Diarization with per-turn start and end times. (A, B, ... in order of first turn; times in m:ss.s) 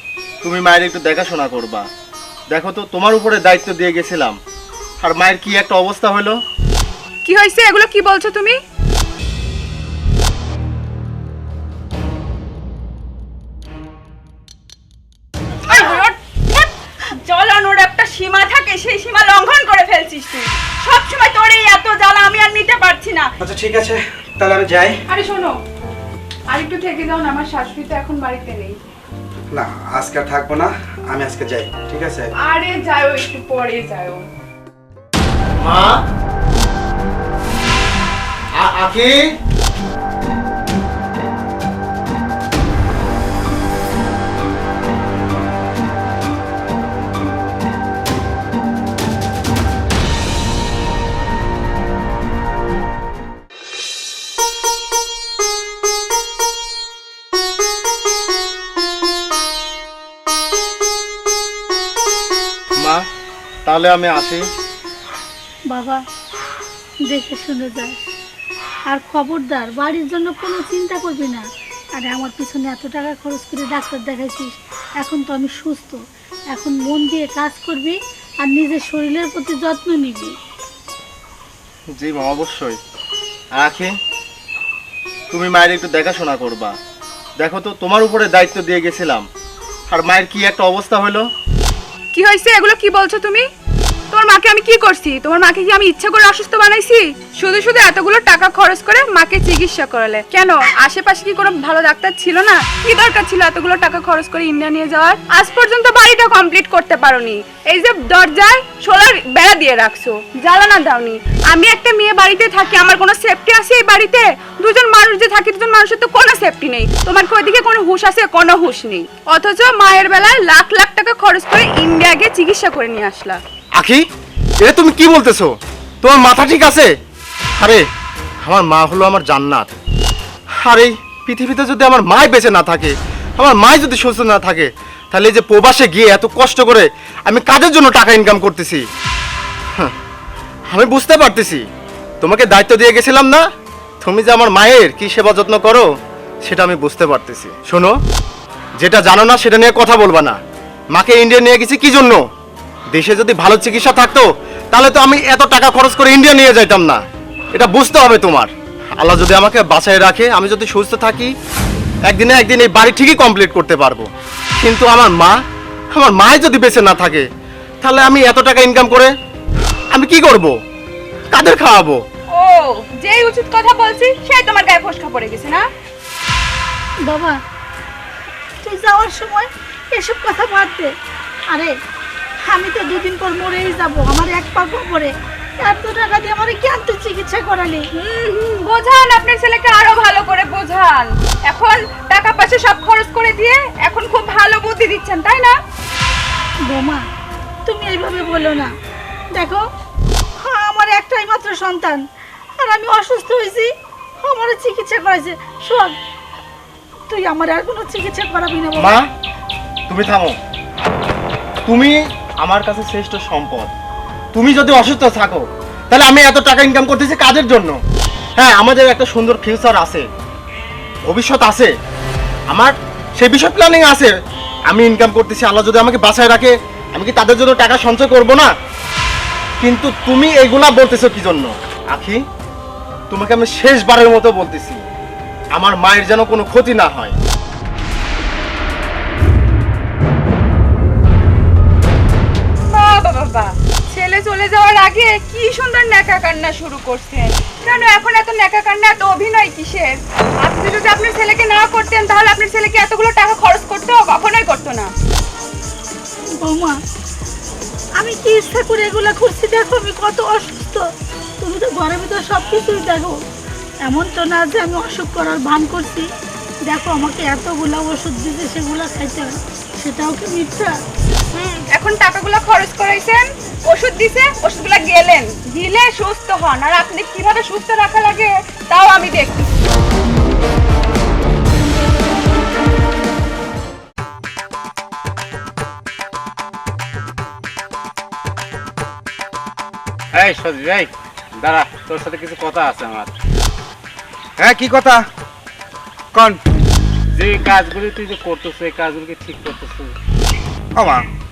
0:00.4-0:01.9 A
0:02.5-0:04.4 A
0:05.0-0:06.4 A
0:07.2-0:08.6 B
0:15.6-0:23.3 B
0:23.4-0:25.0 C
0:25.1-0:25.6 B
0:26.5-0:28.8 B
0:29.5-0:32.3 C
0:32.4-0:34.2 B
0:35.6-0:36.0 A
0:38.6-0:39.2 A
1:02.8-1:03.0 A
1:03.6-1:04.4 A
1:05.7-1:06.0 D
1:07.0-1:08.0 D
1:08.9-1:16.0 D
1:16.5-1:20.3 D
1:21.9-1:22.8 A
1:23.5-1:23.9 A
1:25.3-1:26.8 A
1:27.4-1:29.2 A
1:29.9-1:31.3 A
1:32.1-1:33.5 B
1:34.1-2:03.4 B
2:03.8-2:04.0 A
2:04.6-2:06.9 A
2:07.6-2:07.9 A
2:08.4-2:09.7 A
2:10.6-2:18.8 A
2:20.7-2:21.6 A
2:22.2-2:23.4 A
2:24.0-2:25.9 A
2:26.4-2:28.0 A
2:28.8-2:30.4 A
2:30.9-2:32.2 A
2:32.9-2:41.3 A
2:42.1-2:44.1 A
2:44.6-2:45.4 A
2:45.9-2:47.3 A
2:47.8-2:49.1 A
2:49.9-2:50.5 A
2:51.3-2:52.0 A
2:52.3-2:55.6 B
2:57.0-2:57.4 D
2:58.6-3:00.9 D
3:02.4-3:07.8 D
3:08.0-3:15.6 B
3:16.6-3:17.0 D
3:17.6-3:18.7 D
3:19.3-3:19.6 D
3:20.4-3:22.0 D
3:22.6-3:23.7 D
3:24.2-3:26.0 D
3:27.1-3:29.0 D
3:28.8-3:29.1 A
3:29.9-3:30.4 A
3:31.7-3:33.7 A
3:34.3-3:37.8 A
3:38.4-3:40.0 A
3:41.1-3:41.7 A
3:42.5-3:44.1 A
3:44.7-3:48.5 A
3:49.6-3:52.2 A
3:53.1-3:54.8 A
3:55.5-3:57.1 A
4:02.7-4:14.9 B
4:16.4-4:16.8 D
4:18.0-4:20.8 D
4:21.4-4:23.2 D
4:23.8-4:26.1 D
4:26.7-4:30.7 D
4:31.3-4:39.5 B
4:50.1-4:53.1 E
4:54.4-4:55.0 C
4:57.2-4:59.9 E
5:00.8-5:01.0 C